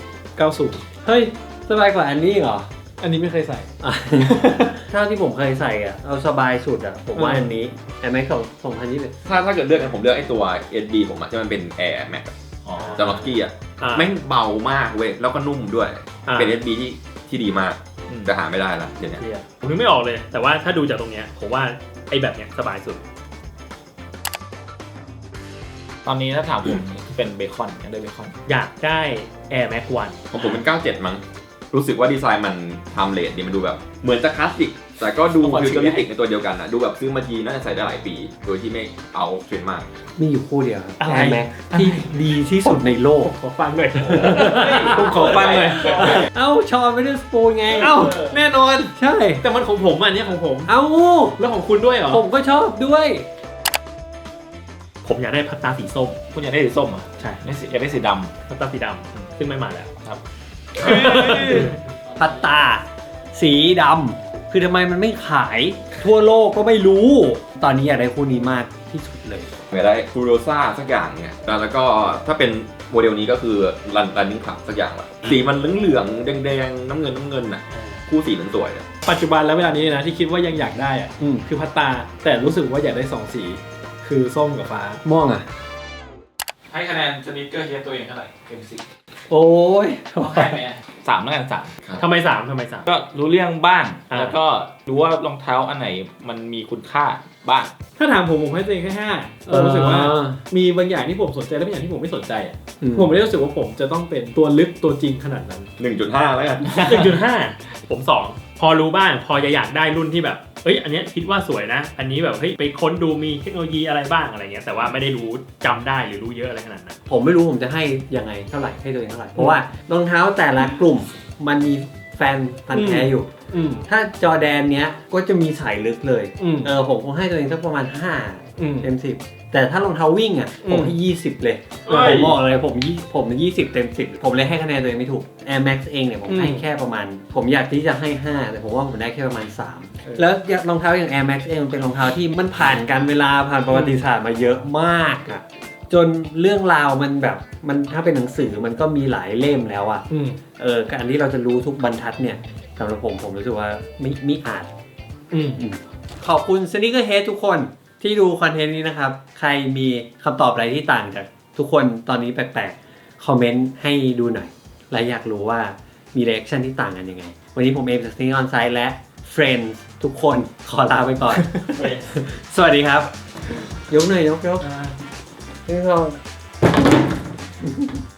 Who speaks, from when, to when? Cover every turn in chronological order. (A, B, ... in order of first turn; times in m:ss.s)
0:00.4-0:00.8 A
0:01.0-0:02.7 B
0:03.0-0:03.7 A
0:03.8-0:09.1 B
0:07.1-0:07.5 A
0:09.2-0:12.3 C
0:12.6-0:13.0 D
0:12.8-0:13.4 B
0:12.9-0:19.2 C
0:13.8-0:14.1 E
0:16.3-0:16.6 E
0:19.2-0:19.4 D
0:19.5-0:23.0 E
0:26.0-0:28.4 D
0:28.5-0:30.2 E
0:30.3-0:39.8 C
0:35.4-0:36.1 D
0:40.2-0:43.3 B
0:41.0-0:42.0 E
0:42.6-0:46.3 A
0:44.0-0:48.2 B
0:44.2-0:45.0 E
0:45.0-0:46.2 D
0:47.7-0:50.7 A
0:47.7-0:48.4 D
0:48.9-0:49.4 B
0:50.7-0:51.4 B
0:51.4-0:52.2 A
0:52.1-0:53.2 B
0:55.0-0:56.2 E
0:56.3-0:58.3 D
0:58.5-0:59.9 E
1:00.8-1:01.7 A
1:00.8-1:01.8 E
1:02.2-1:09.6 B
1:09.7-1:18.8 C
1:17.7-1:18.0 B
1:19.0-1:25.0 A
1:21.2-1:21.5 B
1:25.0-1:25.4 B
1:26.7-1:28.8 D
1:29.3-1:30.6 B
1:30.2-1:31.8 D
1:32.0-1:32.9 E
1:32.8-1:37.7 D
1:34.1-1:34.4 E
1:38.0-1:45.7 A
1:39.5-1:40.4 B
1:42.8-1:43.1 B
1:45.8-1:47.1 C
1:46.6-1:56.9 E
1:57.1-2:03.3 B
2:02.7-2:03.8 A
2:03.8-2:30.0 B
2:06.4-2:06.7 A
2:08.6-2:08.9 A
2:10.6-2:10.9 A
2:11.9-2:12.4 A
2:16.3-2:16.6 A
2:23.7-2:24.0 A
2:30.1-2:30.4 A
2:30.6-2:34.7 B
2:35.3-2:35.6 A
2:35.6-2:53.1 B
2:53.9-2:54.7 B
2:54.6-2:54.9 E
2:55.7-2:56.2 B
2:57.6-2:58.0 B